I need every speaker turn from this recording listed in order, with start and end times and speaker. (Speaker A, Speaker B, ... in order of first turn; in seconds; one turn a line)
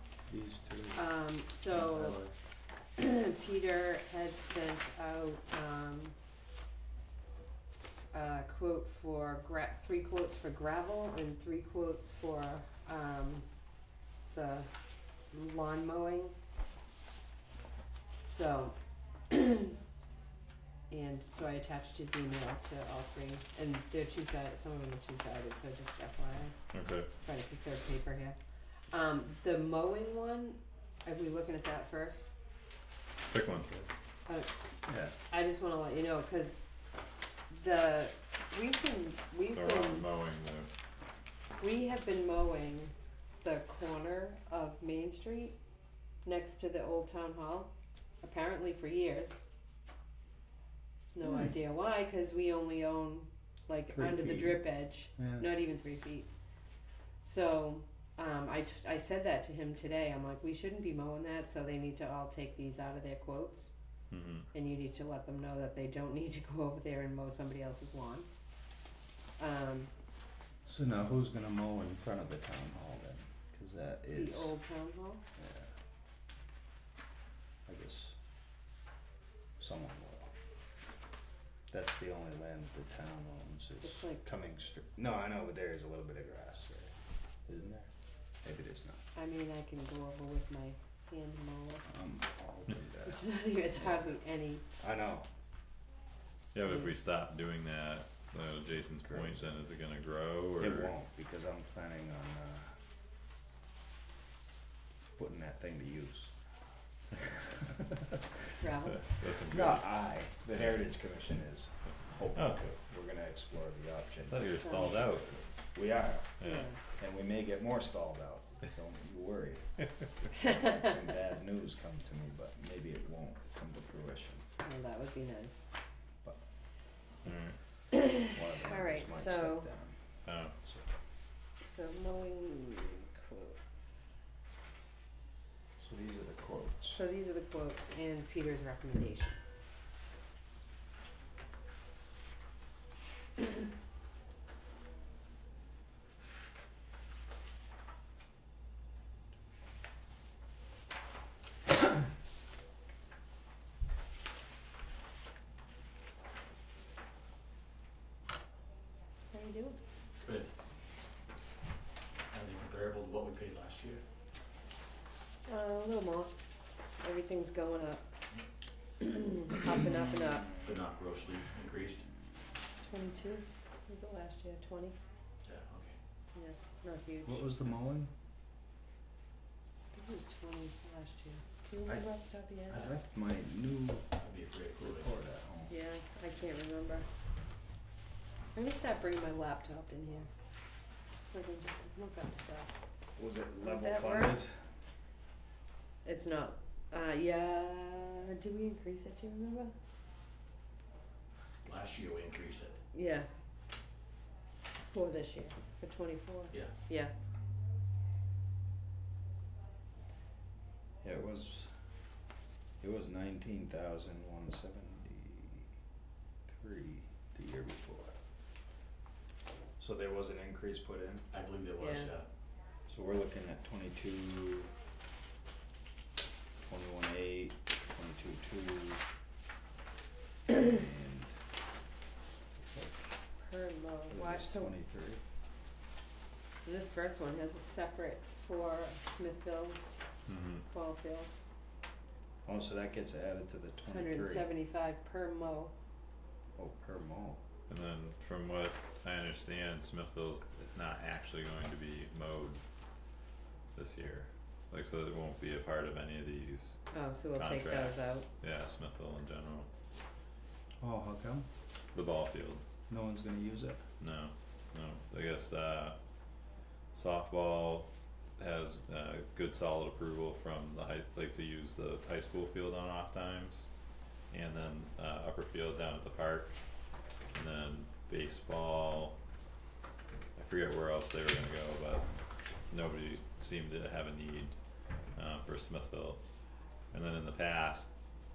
Speaker A: 0.3-1.0
Speaker B: 0.9-2.2
Speaker C: 1.7-2.3
Speaker B: 3.0-6.2
Speaker B: 8.1-13.4
Speaker B: 14.3-14.7
Speaker B: 15.3-16.4
Speaker B: 18.2-18.8
Speaker B: 19.3-19.8
Speaker B: 20.9-26.6
Speaker D: 26.7-27.1
Speaker B: 27.2-32.3
Speaker D: 33.3-33.8
Speaker B: 34.3-34.5
Speaker A: 34.9-35.2
Speaker B: 35.3-36.6
Speaker B: 37.5-40.1
Speaker D: 39.5-40.7
Speaker B: 41.6-45.6
Speaker B: 46.2-47.7
Speaker B: 48.2-49.4
Speaker B: 51.1-56.3
Speaker A: 53.9-54.6
Speaker A: 55.2-55.5
Speaker B: 57.2-63.7
Speaker D: 64.1-64.5
Speaker B: 64.5-68.3
Speaker B: 69.4-69.9
Speaker A: 70.7-74.5
Speaker B: 74.2-75.2
Speaker A: 75.4-75.7
Speaker A: 77.7-78.2
Speaker A: 79.6-80.3
Speaker A: 81.7-87.9
Speaker B: 83.8-84.2
Speaker A: 88.4-89.0
Speaker B: 89.2-91.9
Speaker A: 91.8-93.2
Speaker B: 93.1-94.6
Speaker A: 93.7-94.1
Speaker A: 94.8-95.3
Speaker D: 96.5-100.9
Speaker A: 99.0-99.5
Speaker A: 100.6-102.8
Speaker A: 105.2-106.3
Speaker A: 107.1-108.5
Speaker B: 108.6-109.0
Speaker D: 109.0-109.9
Speaker A: 109.2-115.1
Speaker D: 112.3-112.7
Speaker D: 114.3-115.5
Speaker B: 114.5-115.1
Speaker A: 115.7-124.5
Speaker D: 116.4-116.7
Speaker B: 116.4-116.8
Speaker B: 124.6-125.7
Speaker D: 127.2-127.6
Speaker B: 127.9-129.7
Speaker A: 128.2-130.8
Speaker D: 130.2-130.5
Speaker B: 131.6-134.2
Speaker A: 135.8-137.0
Speaker B: 136.9-139.4
Speaker B: 159.3-159.8
Speaker C: 160.2-160.5
Speaker C: 162.3-164.0
Speaker B: 165.5-166.3
Speaker B: 167.0-168.0
Speaker B: 169.0-170.5
Speaker C: 170.6-172.1
Speaker B: 172.8-175.0
Speaker C: 175.4-176.0
Speaker B: 176.3-177.5
Speaker A: 177.2-178.1
Speaker B: 179.9-182.9
Speaker A: 181.9-182.1
Speaker A: 182.7-184.1
Speaker C: 184.2-185.1
Speaker A: 184.8-185.7
Speaker B: 185.7-187.1
Speaker B: 188.6-190.3
Speaker B: 191.2-192.8
Speaker A: 193.2-194.6
Speaker B: 193.6-194.4
Speaker B: 196.0-199.7
Speaker C: 201.6-202.8
Speaker B: 202.9-203.3
Speaker B: 204.7-207.1
Speaker A: 211.0-211.7
Speaker A: 212.8-215.7
Speaker A: 216.5-218.2
Speaker A: 219.8-221.3
Speaker C: 221.3-222.3
Speaker B: 221.8-222.1
Speaker A: 222.9-224.7
Speaker A: 226.6-229.0
Speaker A: 230.5-231.4
Speaker A: 232.6-233.2
Speaker B: 233.4-234.7
Speaker A: 234.1-235.2
Speaker B: 236.7-239.8
Speaker D: 240.3-240.7
Speaker B: 240.7-241.3
Speaker A: 242.4-244.5
Speaker B: 243.8-245.7
Speaker A: 246.6-247.4
Speaker D: 247.7-252.6
Speaker D: 253.8-256.8
Speaker B: 256.9-258.3
Speaker D: 257.3-259.7
Speaker A: 260.8-261.5
Speaker D: 261.9-262.6
Speaker A: 262.9-263.8
Speaker D: 264.0-266.0
Speaker D: 266.9-273.7
Speaker D: 274.3-276.6
Speaker D: 277.3-279.2
Speaker D: 280.4-282.1
Speaker D: 282.7-284.5
Speaker D: 285.2-286.2
Speaker D: 286.9-287.9